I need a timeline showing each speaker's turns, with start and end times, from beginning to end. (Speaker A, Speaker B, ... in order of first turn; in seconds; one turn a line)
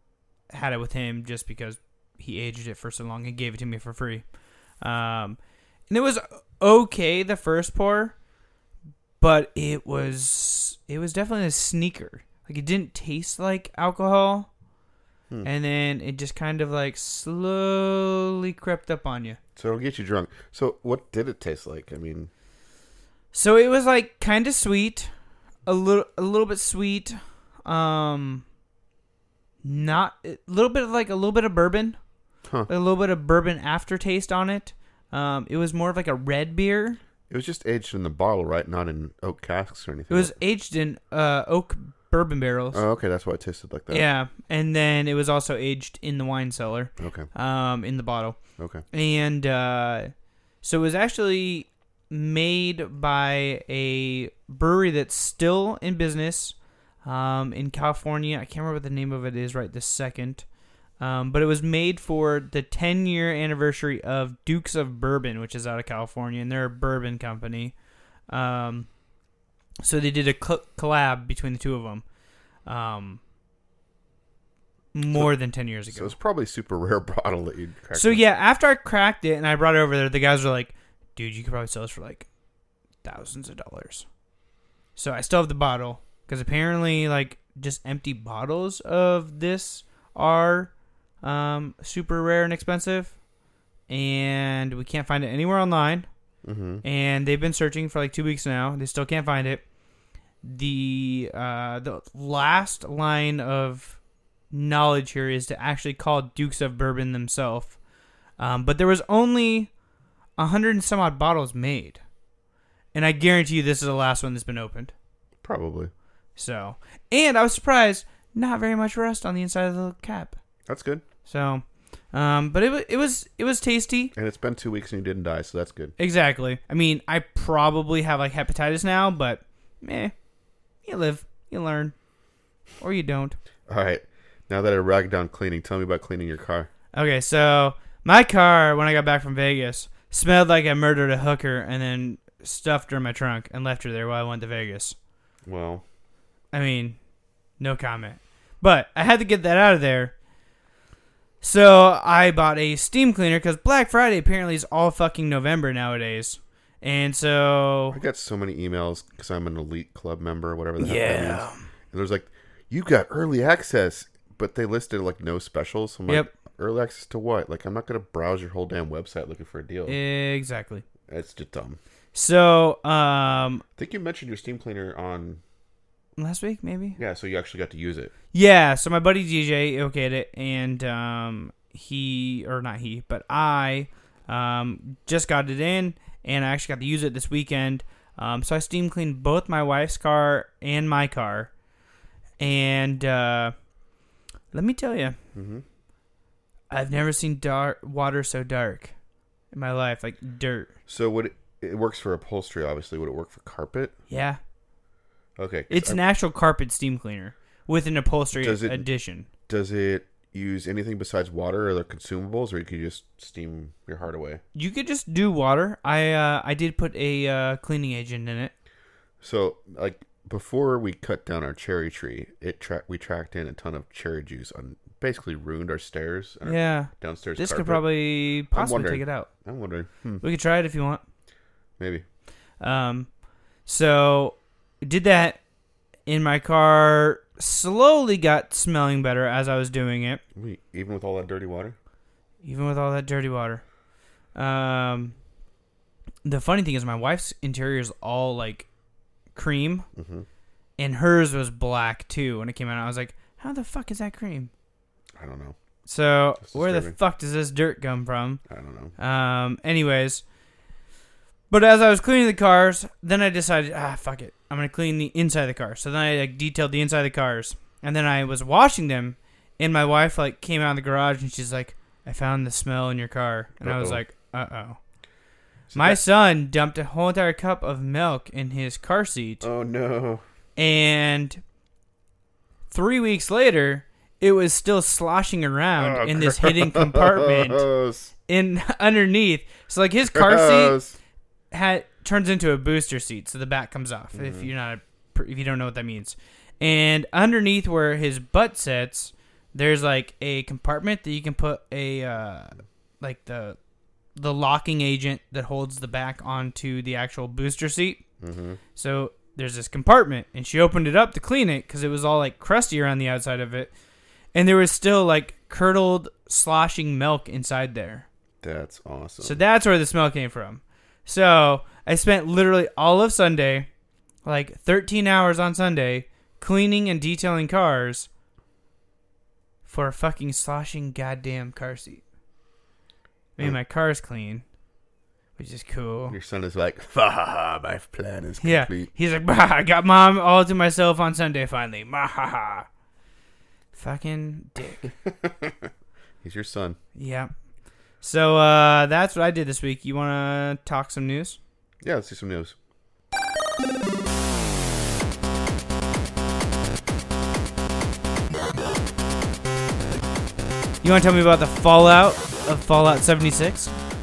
Speaker A: 0.5-4.2
Speaker A: 4.8-5.4
Speaker A: 5.9-8.2
Speaker A: 9.2-14.5
Speaker A: 15.4-19.4
Speaker B: 19.6-22.3
Speaker A: 23.3-25.1
Speaker A: 25.7-28.4
Speaker A: 29.6-32.0
Speaker B: 32.5-32.7
Speaker A: 32.7-37.0
Speaker B: 37.3-40.4
Speaker A: 40.1-42.8
Speaker B: 42.7-44.1
Speaker A: 43.9-48.4
Speaker B: 47.0-47.3
Speaker B: 48.6-48.8
Speaker A: 48.9-60.5
Speaker A: 61.0-67.7
Speaker A: 68.3-68.9
Speaker A: 69.8-72.0
Speaker A: 72.7-73.2
Speaker A: 74.9-76.1
Speaker B: 75.9-78.2
Speaker A: 77.9-82.3
Speaker A: 83.0-84.1
Speaker A: 85.0-93.2
Speaker A: 93.9-96.1
Speaker B: 96.4-96.8
Speaker A: 96.8-99.7
Speaker A: 100.4-104.0
Speaker A: 104.5-107.8
Speaker A: 108.4-109.7
Speaker A: 110.4-112.0
Speaker A: 112.9-114.9
Speaker B: 115.4-115.9
Speaker A: 116.4-120.4
Speaker B: 120.7-121.0
Speaker A: 121.3-124.1
Speaker B: 124.2-126.0
Speaker A: 126.0-130.1
Speaker A: 130.9-131.9
Speaker A: 132.8-133.4
Speaker B: 133.7-136.7
Speaker A: 136.9-145.0
Speaker B: 145.5-145.8
Speaker A: 146.5-147.0
Speaker A: 147.6-150.1
Speaker A: 151.4-158.0
Speaker B: 157.9-170.0
Speaker A: 160.8-161.6
Speaker A: 169.9-170.8
Speaker B: 171.1-171.8
Speaker A: 172.1-173.6
Speaker B: 173.8-175.4
Speaker A: 176.2-177.0
Speaker B: 177.0-178.1
Speaker A: 178.3-191.5
Speaker A: 192.4-193.5
Speaker A: 194.5-195.2
Speaker B: 195.3-195.7
Speaker A: 196.7-198.9
Speaker A: 199.5-200.7
Speaker B: 200.9-203.9
Speaker A: 204.1-204.4
Speaker B: 205.4-206.0
Speaker A: 205.7-209.3
Speaker B: 208.3-208.9
Speaker B: 209.5-214.4
Speaker A: 214.5-218.5
Speaker B: 219.2-227.9
Speaker A: 226.5-229.3
Speaker B: 228.4-230.2
Speaker A: 230.2-231.0
Speaker B: 231.8-232.0
Speaker A: 232.6-233.1
Speaker A: 233.7-235.4
Speaker A: 236.1-240.2
Speaker B: 240.3-241.8
Speaker A: 242.4-243.6
Speaker A: 244.3-245.2
Speaker A: 246.2-248.7
Speaker A: 249.3-249.9
Speaker B: 249.9-250.3
Speaker A: 250.8-254.5
Speaker B: 255.2-255.6
Speaker A: 255.9-258.4
Speaker B: 256.4-257.0
Speaker B: 258.5-258.9
Speaker A: 259.0-260.2
Speaker A: 261.5-274.8
Speaker B: 273.6-274.0
Speaker B: 275.7-276.0
Speaker A: 275.8-279.5
Speaker B: 279.4-280.2
Speaker A: 280.6-281.4
Speaker A: 282.7-287.7
Speaker B: 285.8-288.1
Speaker A: 288.3-290.8
Speaker B: 290.1-291.0
Speaker A: 291.5-303.6
Speaker B: 294.1-294.5
Speaker A: 304.2-308.0
Speaker B: 308.2-308.6
Speaker A: 308.8-313.7
Speaker A: 314.3-318.1
Speaker B: 318.4-319.4
Speaker A: 319.2-323.7
Speaker A: 324.2-328.1
Speaker A: 329.6-332.0
Speaker A: 333.4-334.4
Speaker A: 335.4-336.2
Speaker B: 336.1-338.9
Speaker A: 338.4-342.7
Speaker A: 343.7-344.9
Speaker B: 344.8-345.7
Speaker B: 346.2-346.8
Speaker A: 346.9-347.3
Speaker A: 348.0-351.4
Speaker B: 351.8-352.6
Speaker A: 360.8-363.7